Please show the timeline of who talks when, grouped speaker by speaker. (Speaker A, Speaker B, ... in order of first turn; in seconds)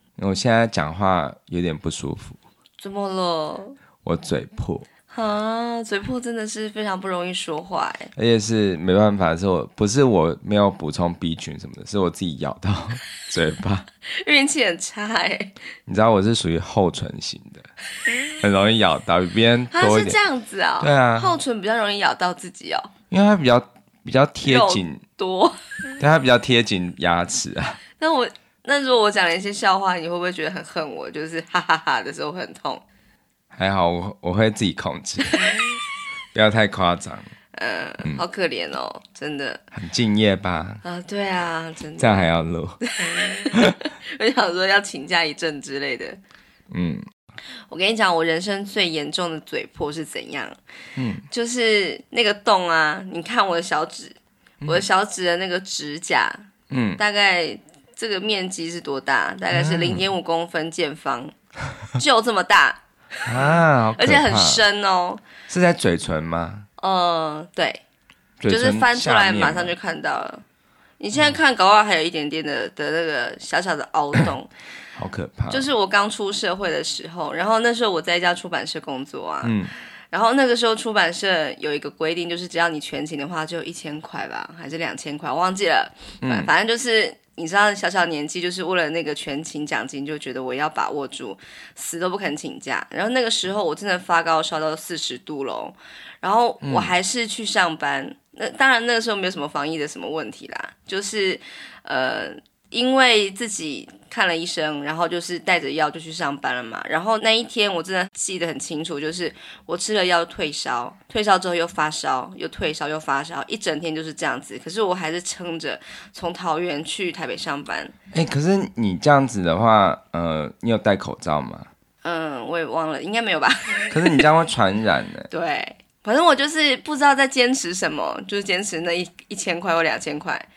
Speaker A: 0.2-2.4, 4.0-4.9, 8.1-13.9, 15.9-17.6, 18.4-20.2, 20.8-21.3, 23.1-25.0, 26.0-27.8, 33.5-35.5, 36.3-37.3, 39.7-40.8, 42.0-43.8, 46.7-47.0, 51.0-51.2, 56.7-57.0, 59.5-60.0, 63.2-64.6, 65.5-66.7, 68.4-69.7, 75.0-75.7, 79.4-79.7, 86.2-86.5, 96.6-96.9, 118.1-121.7, 123.9-125.3
Speaker B: 2.8-3.8, 5.1-8.1, 14.1-15.5, 19.7-22.9, 24.4-25.6, 28.0-32.8, 35.3-35.8, 37.5-39.6, 40.8-42.3, 42.8-46.2, 47.7-50.6, 51.3-61.3, 61.9-65.2, 66.8-67.8, 68.5-70.4, 71.0-74.5, 75.5-79.6, 80.1-117.9, 122.0-124.3, 125.3-130.5